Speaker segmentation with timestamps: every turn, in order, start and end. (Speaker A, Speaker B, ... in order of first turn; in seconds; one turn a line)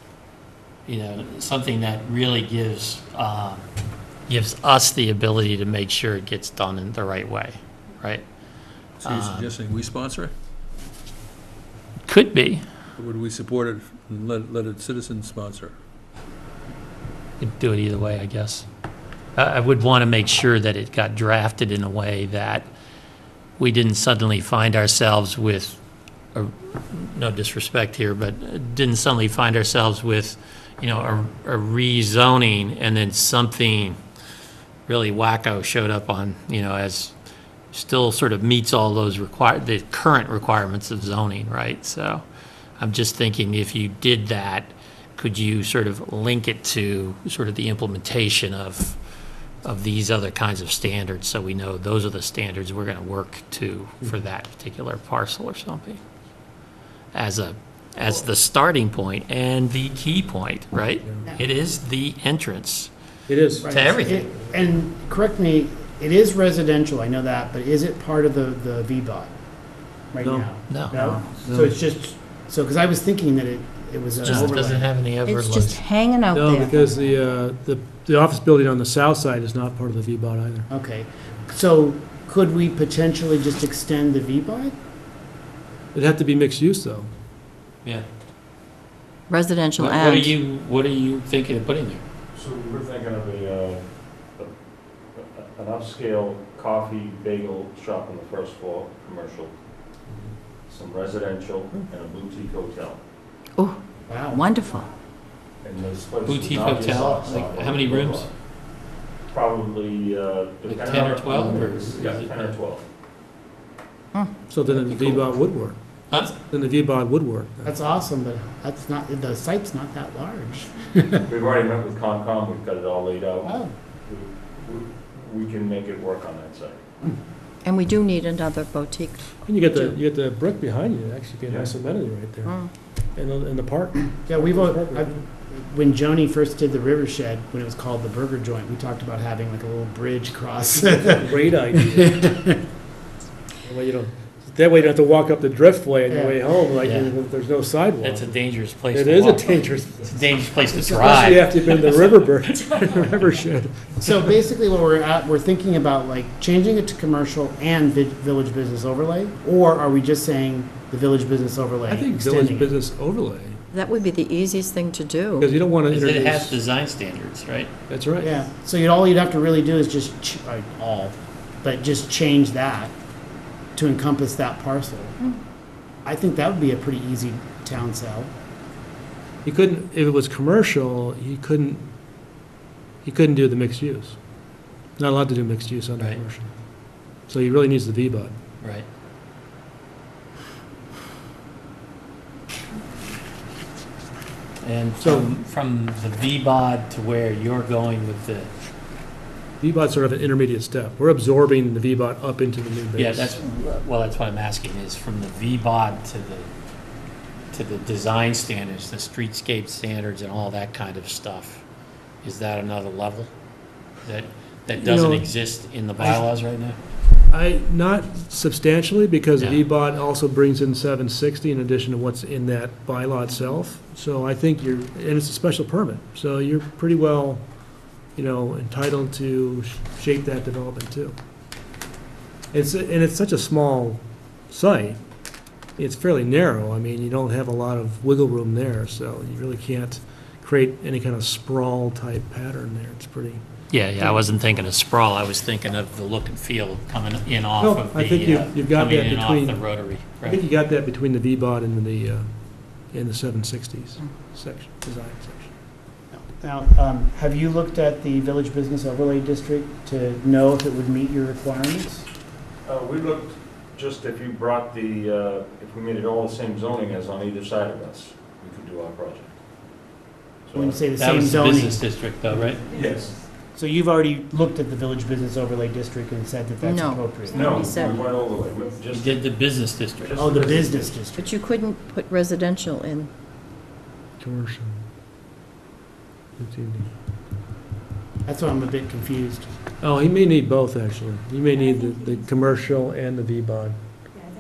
Speaker A: 0.9-3.7
Speaker A: 4.3-8.2
Speaker A: 9.0-9.5
Speaker B: 9.0-10.3
Speaker A: 12.1-12.6
Speaker B: 13.0-15.7
Speaker A: 17.4-18.7
Speaker A: 19.4-22.7
Speaker A: 23.6-25.8
Speaker A: 26.3-34.0
Speaker A: 34.9-37.1
Speaker A: 37.7-42.2
Speaker A: 42.8-49.0
Speaker A: 49.6-56.0
Speaker A: 57.1-62.9
Speaker C: 63.3-63.7
Speaker D: 63.6-69.3
Speaker A: 63.6-64.3
Speaker D: 70.1-74.9
Speaker C: 70.2-71.7
Speaker A: 70.7-71.0
Speaker E: 70.9-71.2
Speaker A: 74.2-75.8
Speaker E: 75.2-77.0
Speaker C: 76.3-80.7
Speaker D: 80.7-84.7
Speaker C: 85.9-87.1
Speaker E: 89.3-90.4
Speaker A: 89.8-92.0
Speaker F: 92.3-93.8
Speaker F: 95.2-99.5
Speaker F: 100.7-103.0
Speaker E: 103.6-104.9
Speaker D: 104.1-104.5
Speaker F: 105.6-108.3
Speaker A: 106.2-108.3
Speaker F: 109.3-112.8
Speaker A: 110.7-112.5
Speaker C: 114.5-117.7
Speaker D: 117.7-121.2
Speaker F: 121.3-126.8
Speaker D: 123.5-123.7
Speaker E: 127.6-130.0
Speaker C: 129.4-135.2
Speaker F: 131.5-131.7
Speaker E: 132.4-132.7
Speaker D: 134.3-141.4
Speaker C: 140.8-142.2
Speaker D: 141.9-142.6
Speaker C: 143.6-148.4
Speaker D: 146.1-146.4
Speaker A: 146.8-147.2
Speaker A: 148.0-151.8
Speaker C: 148.9-150.2
Speaker D: 150.8-151.2
Speaker C: 150.9-154.2
Speaker D: 154.0-162.8
Speaker C: 161.9-163.6
Speaker E: 163.7-165.5
Speaker C: 165.4-166.6
Speaker A: 165.9-167.7
Speaker C: 167.9-168.3
Speaker D: 168.2-172.9
Speaker D: 173.8-175.2
Speaker D: 176.1-178.3
Speaker C: 179.4-181.9
Speaker C: 183.1-184.2
Speaker C: 185.0-186.5
Speaker C: 187.3-188.4
Speaker A: 188.6-188.9
Speaker A: 194.6-198.5
Speaker C: 195.0-195.3
Speaker C: 199.6-203.3
Speaker A: 203.0-206.5
Speaker A: 207.5-211.6
Speaker A: 212.2-213.3
Speaker A: 214.0-216.8
Speaker C: 214.8-215.3
Speaker C: 217.3-227.4
Speaker C: 228.2-231.2
Speaker C: 232.5-235.0
Speaker C: 235.8-243.4
Speaker A: 243.7-250.4
Speaker C: 247.6-252.3
Speaker C: 252.9-255.5
Speaker D: 256.1-262.1
Speaker F: 262.7-269.3
Speaker F: 270.5-270.8
Speaker D: 270.6-271.8
Speaker A: 271.0-272.6
Speaker F: 272.7-273.2
Speaker D: 273.6-277.6
Speaker E: 276.6-278.2
Speaker F: 277.3-279.3
Speaker A: 278.9-280.4
Speaker F: 280.0-281.0
Speaker D: 280.2-281.3
Speaker E: 281.2-283.1
Speaker C: 284.2-284.8
Speaker C: 286.4-286.9
Speaker D: 288.3-289.5
Speaker C: 289.8-293.8